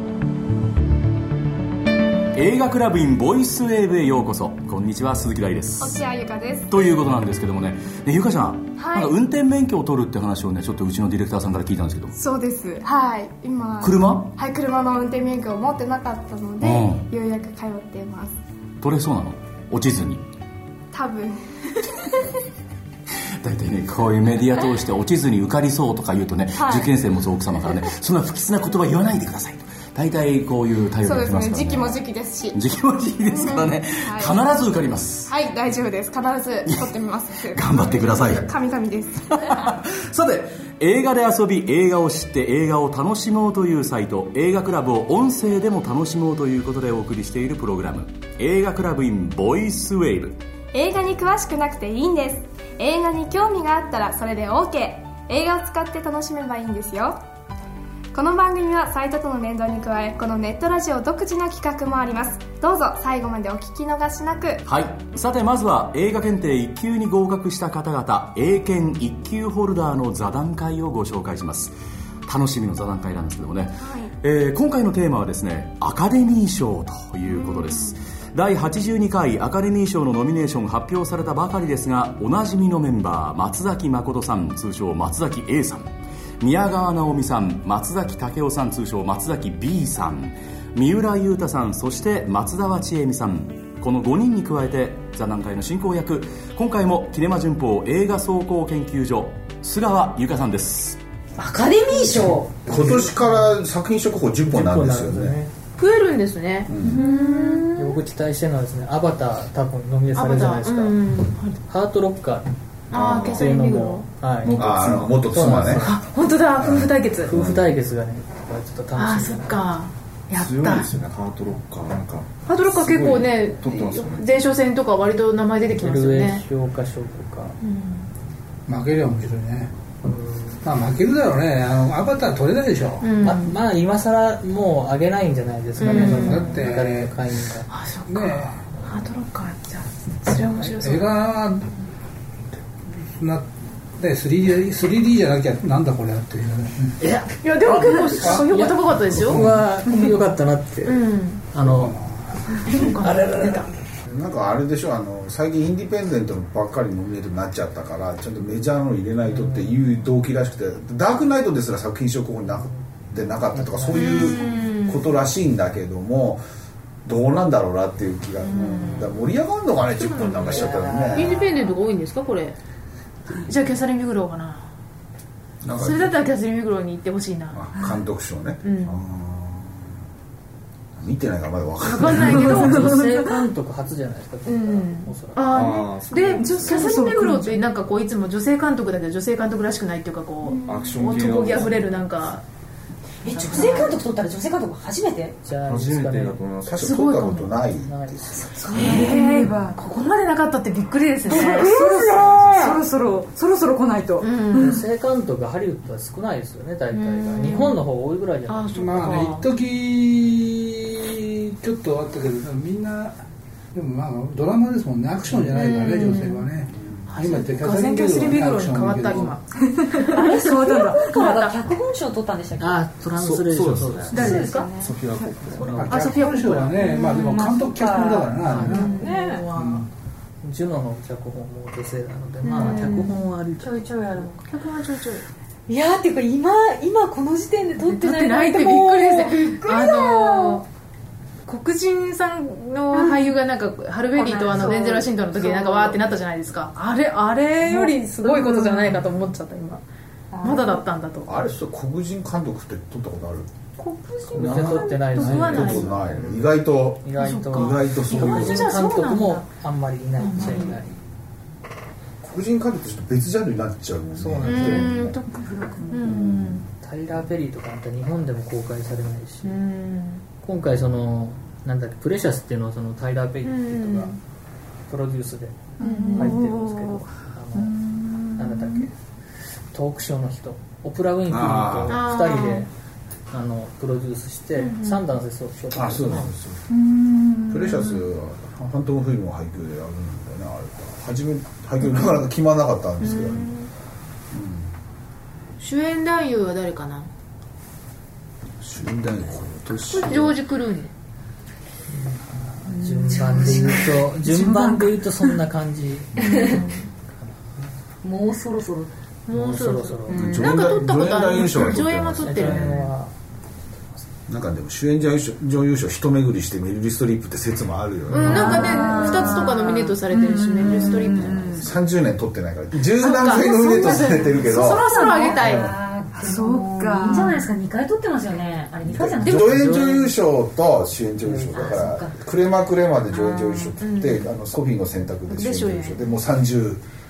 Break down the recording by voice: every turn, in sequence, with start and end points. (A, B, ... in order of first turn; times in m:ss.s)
0:02.4-0:06.0 A
0:05.8-0:06.7 B
0:06.7-0:12.2 A
0:08.8-0:09.1 B
0:12.2-0:18.4 B
0:13.8-0:14.3 A
0:16.6-0:17.0 A
0:18.8-0:20.2 A
0:20.9-0:22.2 B
0:23.4-0:32.0 A
0:26.6-0:26.9 B
0:31.0-0:32.6 B
0:32.5-0:35.3 A
0:33.3-0:34.4 B
0:35.3-0:39.7 B
0:36.7-0:36.9 A
0:37.5-0:38.5 A
0:39.4-0:50.4 A
0:50.7-0:57.2 B
0:58.1-1:04.6 B
1:04.7-1:11.8 A
1:12.3-1:41.0 A
1:13.8-1:14.1 B
1:17.3-1:18.0 B
1:41.4-1:42.5 C
1:42.7-1:45.4 D
1:42.7-1:43.5 E
1:44.5-1:45.5 E
1:45.8-1:47.9 F
1:46.7-1:47.0 D
1:46.9-1:47.7 C
1:47.8-1:51.0 E
1:50.1-1:51.6 F
1:51.7-1:52.5 E
1:52.9-1:54.1 F
1:52.9-1:53.5 G
1:53.3-1:56.0 E
1:54.4-1:55.2 G
1:54.5-1:55.9 D
1:55.7-1:57.4 F
1:56.6-1:57.6 D
1:57.2-1:59.7 E
1:59.0-2:00.9 F
2:00.3-2:04.4 G
2:02.5-2:06.4 F
2:05.8-2:07.6 E
2:07.6-2:08.1 F
2:08.7-2:09.7 H
2:10.3-2:10.6 E
2:10.6-2:13.1 H
2:13.0-2:13.6 F
2:13.2-2:17.7 E
2:15.8-2:16.7 F
2:15.8-2:17.2 H
2:17.7-2:21.1 F
2:18.1-2:18.7 H
2:20.8-2:21.8 H
2:23.0-2:27.0 H
2:27.0-2:32.0 E
2:27.4-2:30.1 F
2:28.1-2:29.6 H
2:30.8-2:31.5 F
2:31.6-2:32.4 H
2:32.5-2:33.7 F
2:33.0-2:33.6 E
2:34.1-2:46.4 D
2:39.3-2:40.0 E
2:43.5-2:44.5 E
2:43.9-2:45.1 F
2:47.0-2:51.5 D
2:48.4-2:49.3 F
2:48.6-2:48.9 E
2:49.9-2:52.6 F
2:50.4-2:51.6 E
2:53.3-2:54.7 F
2:55.6-2:56.2 D
2:55.7-2:58.0 F
2:57.5-2:59.9 D
2:58.6-2:59.0 F
3:01.0-3:03.0 D
3:01.8-3:03.4 F
3:02.1-3:05.6 E
3:04.5-3:12.4 F
3:05.5-3:07.0 G
3:06.7-3:07.5 C
3:10.5-3:12.0 G
3:13.2-3:15.4 C
3:13.3-3:14.0 F
3:15.4-3:16.4 E
3:15.6-3:16.9 G
3:16.7-3:18.5 D
3:16.8-3:17.6 F
3:17.8-3:18.4 E
3:18.6-3:19.8 C
3:18.6-3:22.8 F
3:21.2-3:24.6 C
3:24.2-3:24.8 F
3:24.6-3:29.2 E
3:26.9-3:27.8 F
3:28.5-3:29.5 F
3:28.7-3:33.2 H
3:33.7-3:39.4 H
3:35.4-3:36.5 F
3:36.8-3:37.1 D
3:37.1-3:41.6 F
3:39.9-3:42.9 C
3:42.6-3:44.6 E
3:43.2-3:45.8 G
3:44.1-3:44.7 F
3:44.1-3:45.0 C
3:45.6-3:46.1 E
3:45.7-3:49.9 H
3:45.9-3:47.6 F
3:46.8-3:49.5 C
3:48.4-3:48.9 E
3:48.5-3:49.9 F
3:50.4-3:53.8 E
3:52.4-3:54.4 C
3:52.5-3:53.1 F
3:54.5-3:55.2 F
3:55.7-4:00.6 C
3:57.8-4:00.6 F
4:01.4-4:09.8 F
4:02.9-4:03.3 C
4:04.1-4:06.0 C
4:07.6-4:09.1 C
4:10.3-4:10.8 C
4:10.4-4:11.5 F
4:11.3-4:13.5 D
4:13.8-4:15.6 C
4:14.3-4:16.1 F
4:14.3-4:21.0 E
4:14.3-4:18.8 D
4:17.2-4:19.5 F
4:20.2-4:20.8 F
4:20.2-4:20.8 C
4:22.2-4:25.2 D
4:24.2-4:25.0 E
4:24.4-4:26.6 F
4:25.3-4:26.3 C
4:26.1-4:26.6 D
4:26.7-4:29.6 E
4:29.5-4:30.2 F
4:29.6-4:30.2 C
4:30.4-4:34.2 E
4:33.4-4:34.2 F
4:34.9-4:37.8 E
4:35.8-4:36.6 C
4:35.8-4:37.0 F
4:37.6-4:38.8 C
4:38.4-4:38.9 E
4:39.7-4:42.7 E
4:41.3-4:42.0 D
4:41.9-4:42.7 F
4:43.3-4:46.3 E
4:44.6-4:44.9 F
4:45.7-4:46.6 D
4:46.7-4:47.8 C
4:47.5-4:53.5 D
4:53.0-4:53.7 F
4:54.3-4:54.7 D
4:55.6-4:57.1 F
4:58.6-5:00.4 D
4:59.8-5:00.9 F
5:01.9-5:06.6 E
5:02.7-5:05.3 C
5:06.2-5:06.6 C
5:06.3-5:06.9 F
5:08.0-5:08.9 C
5:09.3-5:12.9 F
5:09.3-5:10.3 E
5:10.1-5:10.5 C
5:10.1-5:12.8 D
5:12.2-5:13.1 E
5:14.3-5:18.9 D
5:18.1-5:21.7 F
5:18.1-5:21.7 C
5:21.2-5:25.7 D
5:23.0-5:27.4 F
5:23.4-5:29.8 C
5:28.8-5:36.8 D
5:29.2-5:30.1 E
5:31.2-5:31.5 E
5:31.3-5:32.2 C
5:33.1-5:33.7 C
5:33.8-5:34.3 F
5:35.3-5:36.1 F